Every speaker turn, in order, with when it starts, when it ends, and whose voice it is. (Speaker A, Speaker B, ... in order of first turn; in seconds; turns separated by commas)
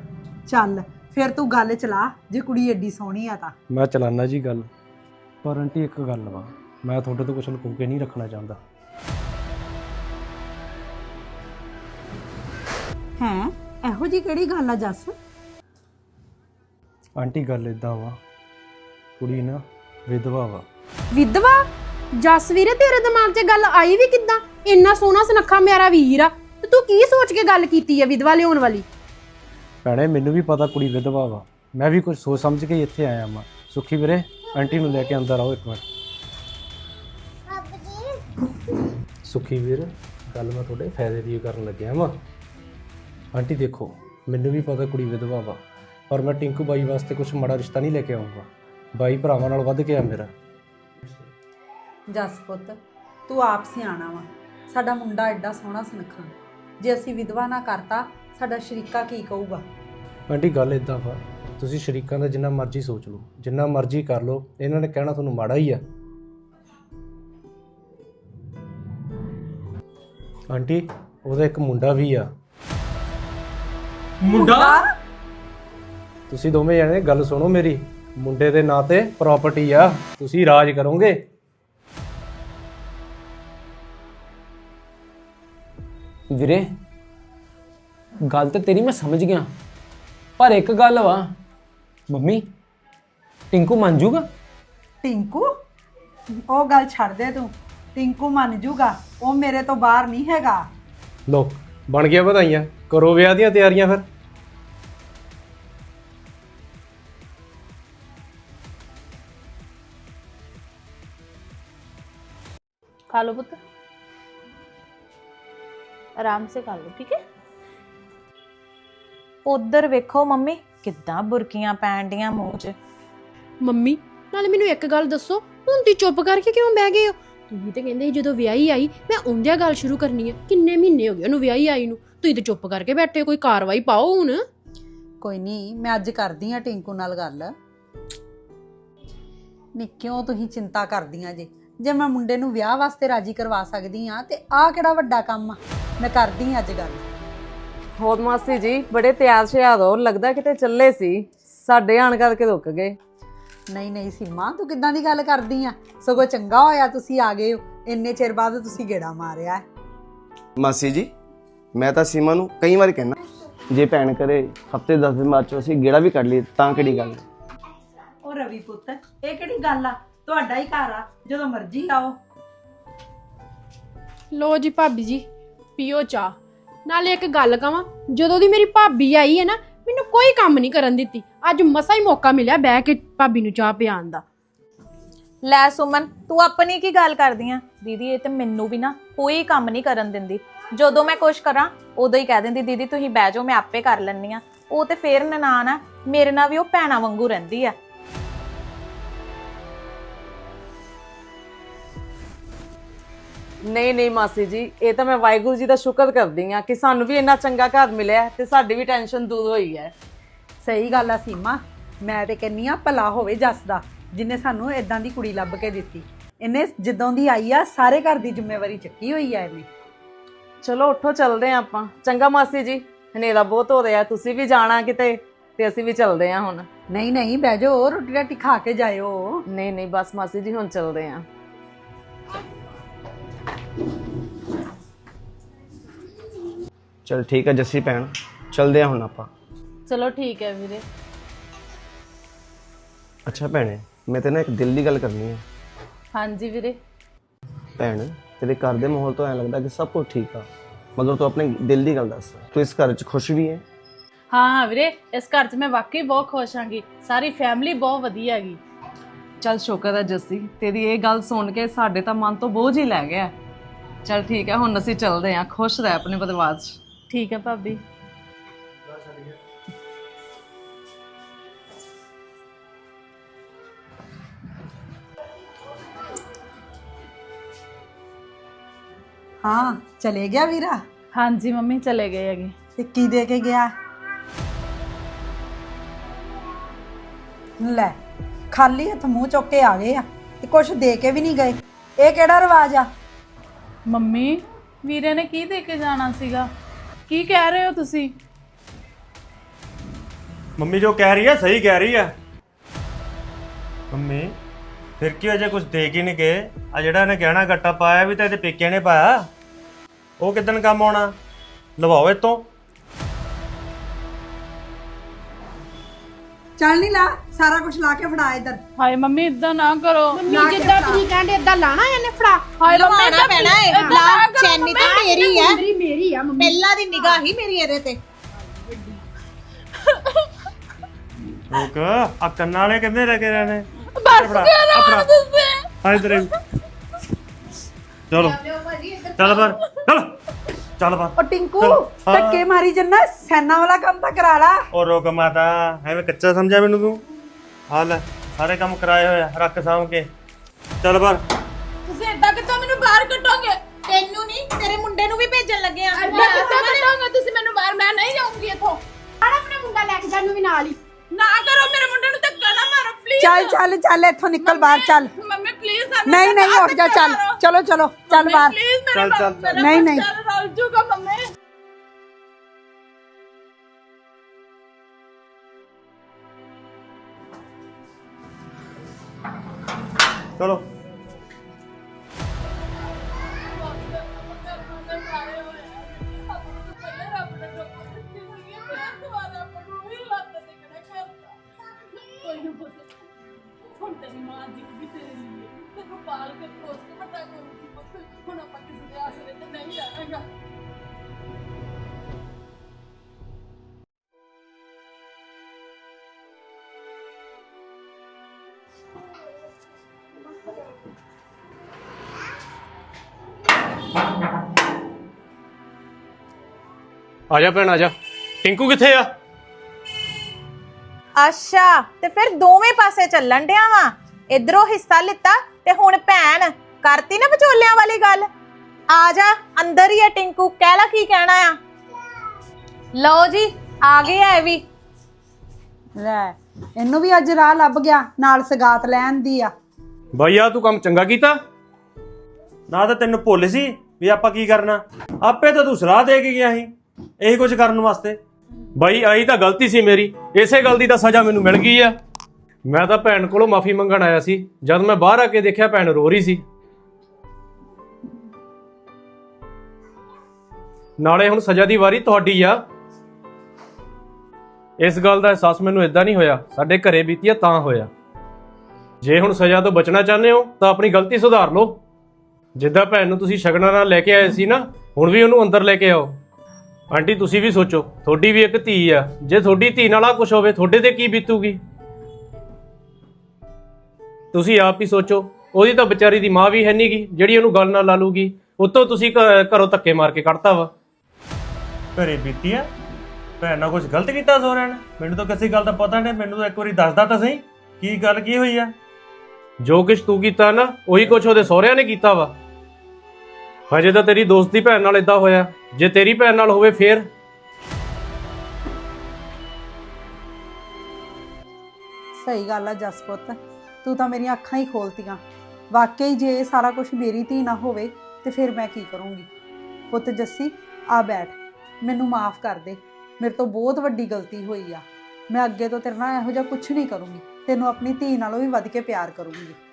Speaker A: 0.5-3.5, Speaker B: 3.7-4.7, Speaker B: 5.4-8.6, Speaker A: 13.2-15.1, Speaker B: 17.1-18.2, Speaker B: 19.2-20.6, Speaker C: 21.1-28.9, Speaker B: 29.9-35.8, Speaker B: 39.2-42.1, Speaker B: 43.3-50.3, Speaker A: 52.1-52.8, Speaker A: 53.3-59.6, Speaker B: 60.3-65.8, Speaker B: 70.5-72.3, Speaker D: 74.3-74.7, Speaker A: 74.3-74.9, Speaker B: 76.3-81.2, Speaker E: 86.3-86.8, Speaker E: 88.2-89.5, Speaker E: 90.4-91.3, Speaker E: 92.1-92.5, Speaker E: 93.5-94.3, Speaker A: 95.0-95.5, Speaker A: 96.5-100.6, Speaker B: 101.3-104.0, Speaker F: 113.1-113.6, Speaker G: 116.2-117.2, Speaker G: 119.4-122.8, Speaker C: 123.6-134.4, Speaker A: 135.2-137.5, Speaker A: 139.8-147.0, Speaker H: 148.0-152.9, Speaker A: 153.7-159.6, Speaker I: 160.6-161.1, Speaker I: 161.8-163.1, Speaker I: 163.7-167.2, Speaker A: 168.2-172.2, Speaker C: 174.3-175.2, Speaker C: 175.8-184.2, Speaker G: 185.4-197.8, Speaker H: 203.7-209.9, Speaker A: 210.6-219.7, Speaker H: 220.6-226.7, Speaker A: 226.9-229.4, Speaker H: 229.5-231.2, Speaker I: 237.1-239.3, Speaker F: 239.9-240.8, Speaker I: 243.2-245.4, Speaker F: 246.1-246.8, Speaker I: 247.8-253.6, Speaker F: 254.3-258.6, Speaker H: 259.4-263.3, Speaker H: 264.0-266.8, Speaker F: 267.1-267.8, Speaker A: 279.4-280.8, Speaker F: 281.1-282.5, Speaker A: 282.8-283.7, Speaker A: 287.6-287.9, Speaker A: 288.5-292.9, Speaker F: 293.9-296.5, Speaker F: 297.1-298.1, Speaker D: 300.6-302.1, Speaker D: 303.9-304.4, Speaker D: 305.0-309.3, Speaker D: 310.2-311.1, Speaker D: 311.8-312.4, Speaker A: 316.6-318.6, Speaker F: 318.8-320.2, Speaker C: 320.1-322.7, Speaker A: 320.2-321.0, Speaker F: 322.6-325.4, Speaker D: 322.7-325.6, Speaker G: 323.1-323.4, Speaker C: 323.6-324.0, Speaker C: 324.9-327.2, Speaker D: 326.4-328.0, Speaker G: 326.8-327.2, Speaker C: 328.6-329.0, Speaker D: 331.5-335.1, Speaker F: 333.9-336.2, Speaker D: 335.8-336.3, Speaker D: 338.1-340.1, Speaker D: 340.8-342.4, Speaker A: 341.2-344.6, Speaker D: 344.7-347.0, Speaker D: 347.7-350.1, Speaker D: 350.8-351.2, Speaker F: 351.9-353.6, Speaker G: 353.9-356.9, Speaker F: 356.0-358.8, Speaker C: 359.2-360.8, Speaker F: 361.1-363.6, Speaker A: 363.2-365.1, Speaker F: 364.4-367.4, Speaker A: 366.1-368.6, Speaker F: 368.1-371.2, Speaker D: 368.9-369.6, Speaker A: 369.5-370.1, Speaker D: 380.4-380.6, Speaker F: 383.5-391.4, Speaker F: 391.9-392.9, Speaker F: 393.8-400.2, Speaker B: 417.3-417.9, Speaker B: 418.4-419.1, Speaker G: 421.2-428.3, Speaker G: 428.9-431.6, Speaker G: 432.9-434.6, Speaker A: 436.0-439.5, Speaker B: 440.2-441.4, Speaker D: 442.7-448.2, Speaker B: 448.8-451.9, Speaker B: 452.6-456.4, Speaker B: 461.0-462.6, Speaker B: 464.8-467.9, Speaker B: 469.0-471.8, Speaker B: 472.6-476.2, Speaker B: 476.9-481.6, Speaker B: 484.3-490.7, Speaker D: 491.9-492.7, Speaker D: 493.4-498.7, Speaker B: 499.6-502.3, Speaker B: 503.7-507.1, Speaker A: 512.2-515.2, Speaker A: 515.7-519.3, Speaker A: 519.9-529.6